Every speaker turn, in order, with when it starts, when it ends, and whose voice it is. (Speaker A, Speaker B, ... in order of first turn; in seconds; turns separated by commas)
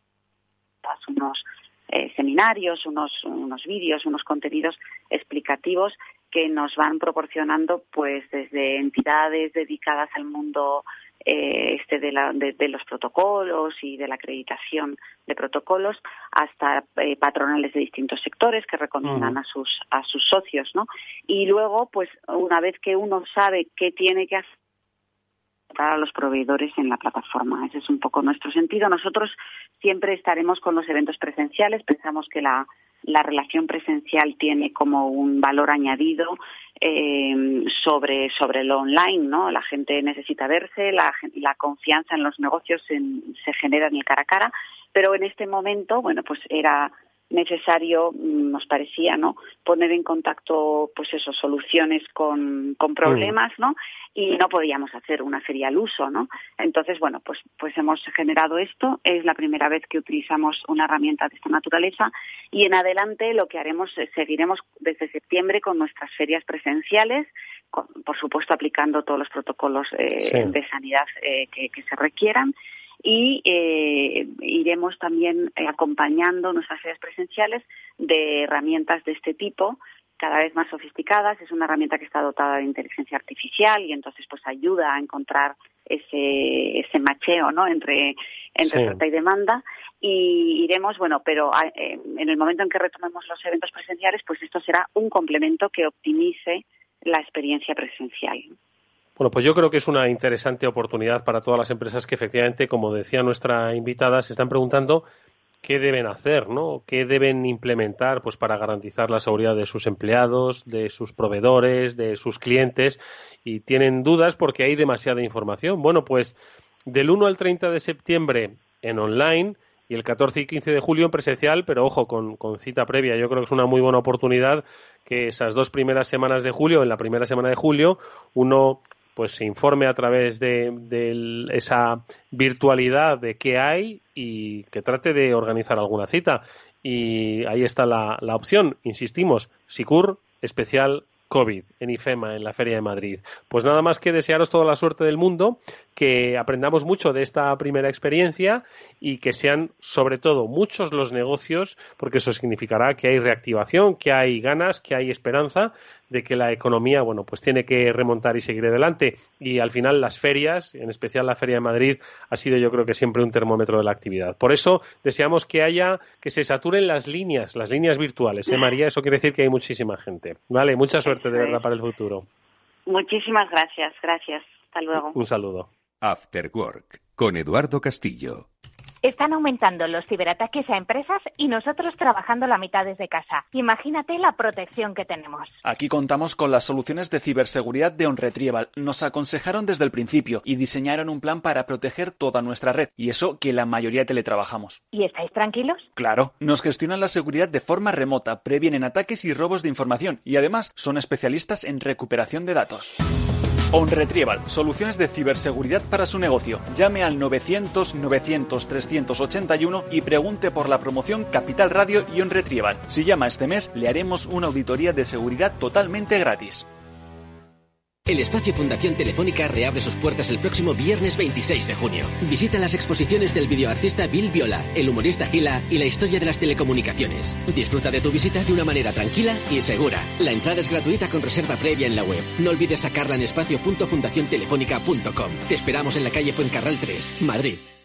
Speaker A: 0.8-24.4, Speaker B: 19.0-19.4, Speaker A: 25.7-98.5, Speaker B: 53.1-53.3, Speaker B: 70.2-70.5, Speaker B: 88.7-89.0, Speaker B: 99.2-105.0, Speaker B: 105.6-116.3, Speaker B: 116.9-172.2, Speaker A: 171.1-171.6, Speaker A: 172.9-175.2, Speaker B: 175.1-175.7, Speaker C: 176.0-178.4, Speaker D: 179.0-185.5, Speaker E: 185.6-194.8, Speaker D: 194.9-195.9, Speaker E: 195.9-203.0, Speaker E: 203.7-216.7, Speaker F: 218.1-237.6